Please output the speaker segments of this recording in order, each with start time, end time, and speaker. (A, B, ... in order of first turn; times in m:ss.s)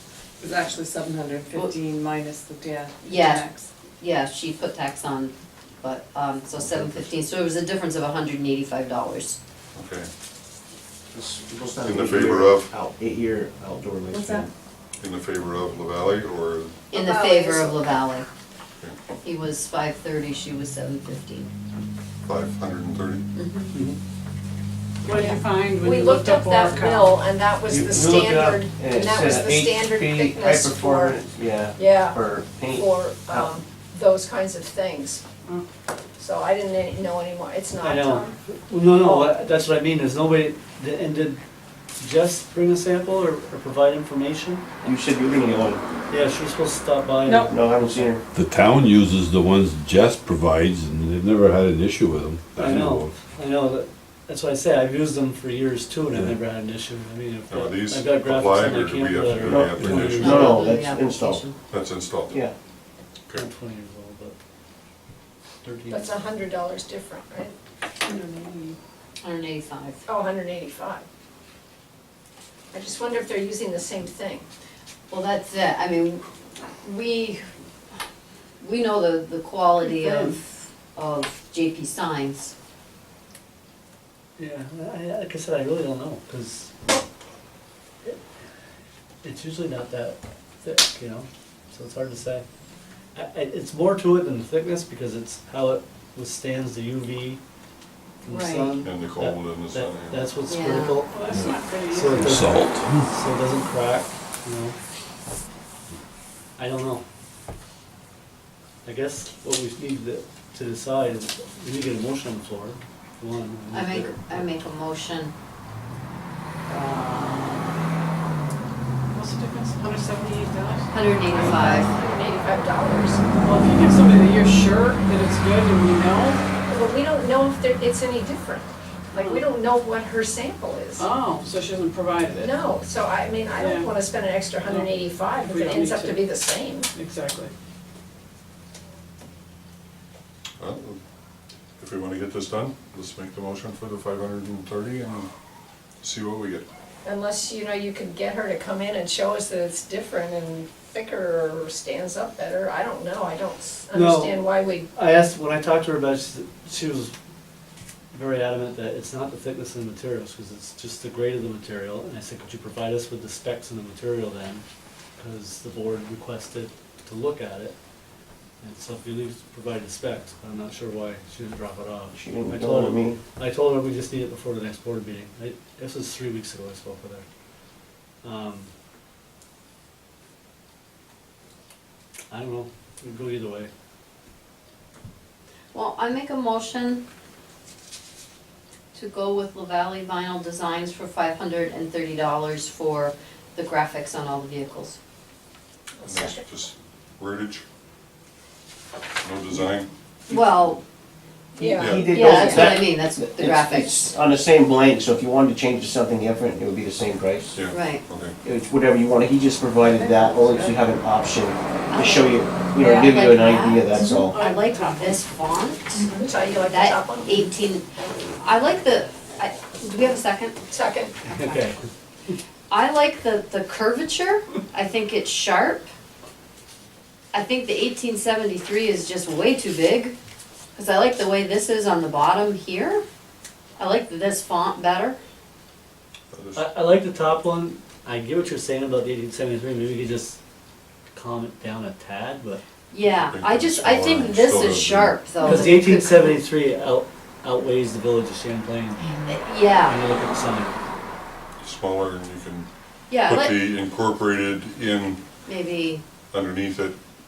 0:00.4-0:03.7 A
0:03.0-0:03.5 B
0:04.0-0:09.4 B
0:06.6-0:07.0 C
0:09.7-0:10.1 C
0:11.1-0:14.5 D
0:11.8-0:12.7 C
0:14.1-0:14.5 A
0:15.0-0:16.8 C
0:16.9-0:18.3 B
0:16.9-0:17.9 E
0:19.2-0:21.5 B
0:22.2-0:23.2 C
0:23.3-0:23.7 B
0:23.7-0:24.0 F
0:25.0-0:27.2 G
0:25.1-0:31.2 E
0:27.7-0:33.5 D
0:31.8-0:35.2 E
0:36.2-0:38.4 E
0:37.8-0:41.4 F
0:42.0-0:44.9 F
0:44.8-0:45.8 D
0:46.1-0:48.2 F
0:47.5-0:48.2 D
0:48.3-0:53.1 H
0:52.6-1:00.7 F
0:57.5-1:00.6 C
0:59.4-1:01.4 D
0:59.8-1:00.1 H
1:00.2-1:01.6 B
1:01.7-1:02.4 C
1:03.3-1:04.4 F
1:05.6-1:06.2 F
1:05.9-1:07.5 E
1:08.1-1:08.8 G
1:09.2-1:10.0 B
1:10.0-1:11.0 E
1:12.7-1:14.4 E
1:15.1-1:16.2 B
1:16.8-1:17.4 B
1:18.6-1:22.5 B
1:19.9-1:20.3 G
1:24.4-1:27.0 F
1:29.2-1:32.4 F
1:33.1-1:37.4 F
1:38.2-1:41.3 F
1:38.8-1:40.3 C
1:40.5-1:41.0 B
1:41.1-1:42.5 G
1:41.9-1:44.8 F
1:42.2-1:43.0 H
1:46.6-1:47.0 F
1:48.8-1:54.5 F
1:53.7-1:55.3 B
1:56.7-1:57.6 B
1:59.1-2:00.9 G
2:00.9-2:01.9 B
2:01.3-2:03.2 E
2:03.4-2:06.4 G
2:06.7-2:11.1 E
2:09.1-2:09.4 G
2:11.0-2:12.6 G
2:12.4-2:16.9 E
2:13.6-2:13.9 G
2:14.6-2:16.2 G
2:16.9-2:17.5 G
2:20.6-2:21.0 C
2:21.8-2:25.3 C
2:26.0-2:26.6 C
2:27.0-2:34.9 E
2:33.9-2:37.1 F
2:38.1-2:44.6 F
2:45.2-2:47.7 F
2:48.6-2:57.2 F
2:52.1-2:53.2 D
2:58.2-2:58.7 F
3:02.3-3:03.7 F
3:05.7-3:07.0 B
3:08.9-3:15.0 B
3:16.0-3:16.4 E
3:16.0-3:17.6 C
3:19.2-3:19.9 C
3:20.3-3:20.8 B
3:21.6-3:22.8 E
3:21.6-3:24.1 B
3:21.6-3:27.6 D
3:21.8-3:22.1 C
3:27.5-3:28.3 C
3:27.7-3:28.0 B
3:28.4-3:34.4 D
3:29.9-3:30.7 A
3:31.9-3:37.8 B
3:34.1-3:35.2 G
3:36.2-3:37.5 E
3:38.4-3:40.6 B
3:40.7-3:41.1 E
3:41.3-3:41.8 F
3:42.7-3:45.9 B
3:47.3-3:50.2 B
3:50.7-3:53.0 B
3:53.8-3:55.2 B
3:56.3-3:56.8 C
3:56.5-4:00.4 F
4:01.1-4:02.6 F
4:02.9-4:06.4 B
4:03.0-4:05.4 C
4:05.4-4:09.2 F
4:09.0-4:10.0 B
4:09.8-4:10.8 F
4:11.6-4:12.7 C
4:13.1-4:13.6 B
4:13.2-4:15.2 C
4:15.4-4:16.0 B
4:16.3-4:17.0 C